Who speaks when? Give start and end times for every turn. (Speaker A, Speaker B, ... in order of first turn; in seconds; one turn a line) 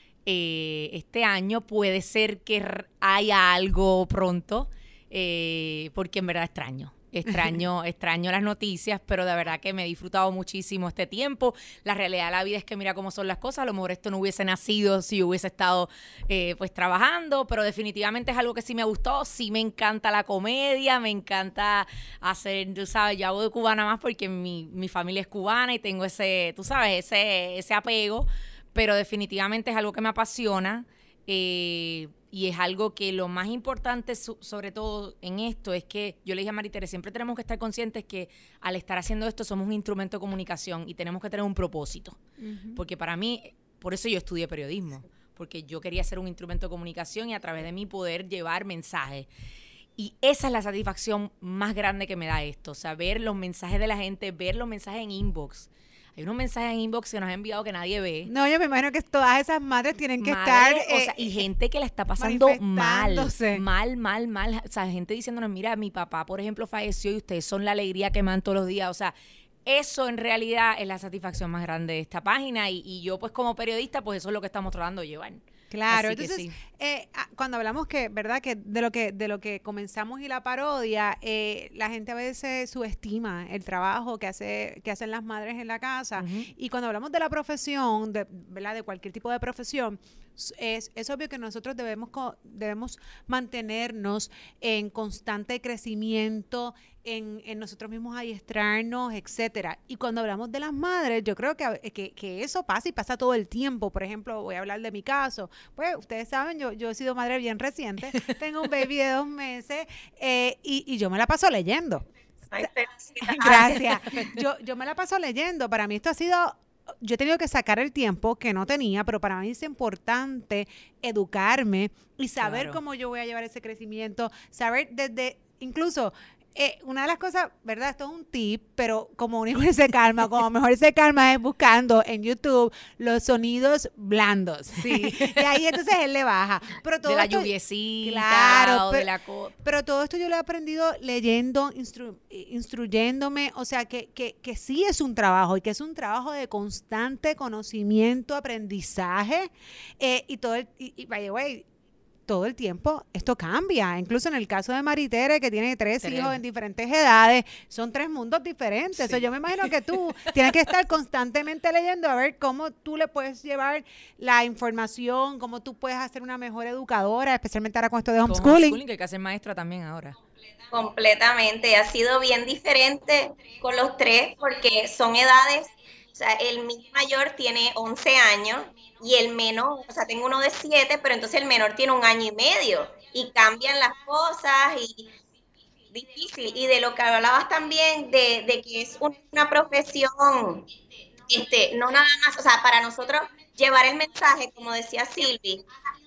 Speaker A: 0.2-42.2
Speaker B: 42.4-42.8
Speaker A: 42.8-49.3
Speaker A: 50.0-58.3
Speaker B: 58.2-61.4
Speaker A: 60.2-69.1
Speaker B: 62.2-63.6
Speaker A: 69.7-76.6
Speaker B: 75.7-112.0
Speaker A: 86.2-86.5
Speaker C: 112.5-114.0
Speaker B: 113.2-137.5
Speaker A: 122.4-122.8
Speaker A: 134.7-135.5
Speaker A: 137.0-139.5
Speaker B: 138.0-139.1
Speaker B: 139.6-151.7
Speaker B: 152.3-168.8
Speaker A: 156.0-156.3
Speaker A: 158.9-159.7
Speaker A: 168.2-170.2
Speaker C: 170.7-185.1
Speaker C: 185.9-190.7
Speaker C: 191.3-195.7